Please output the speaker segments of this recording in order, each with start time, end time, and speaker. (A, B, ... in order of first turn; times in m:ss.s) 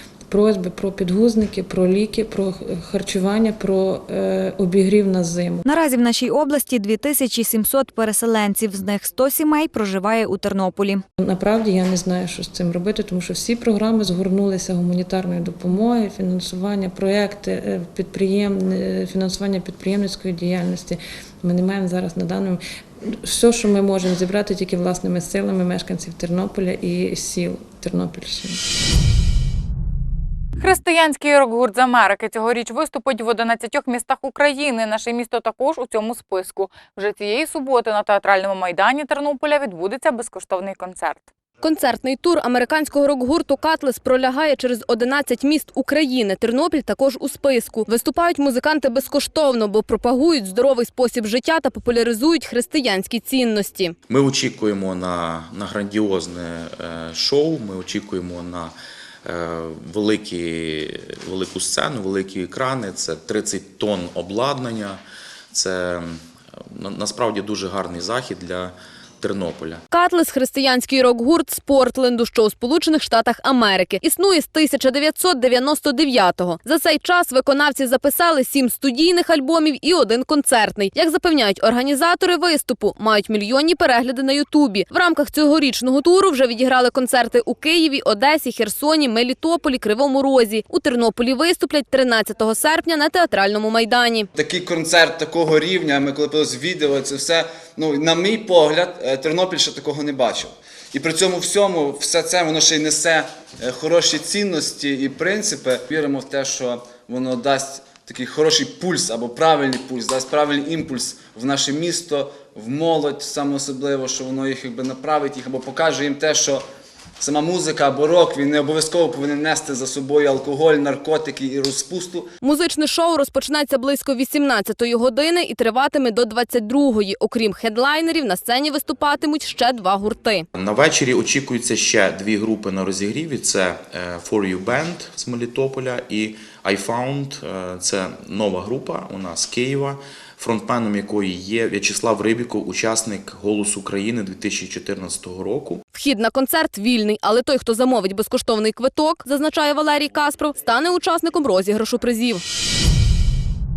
0:00.3-0:05.6 A
0:05.6-0:11.0 B
0:11.2-0:22.6 A
0:23.2-0:28.6 A
0:30.6-0:41.3 C
0:41.6-0:53.9 D
0:54.1-0:58.7 E
0:59.3-1:05.0 E
1:05.5-1:06.2 E
1:06.8-1:09.8 E
1:09.9-1:34.3 D
1:34.4-1:56.6 F
1:57.2-2:02.3 F
2:02.4-2:10.5 D
2:10.6-2:25.8 E
2:25.9-2:32.4 D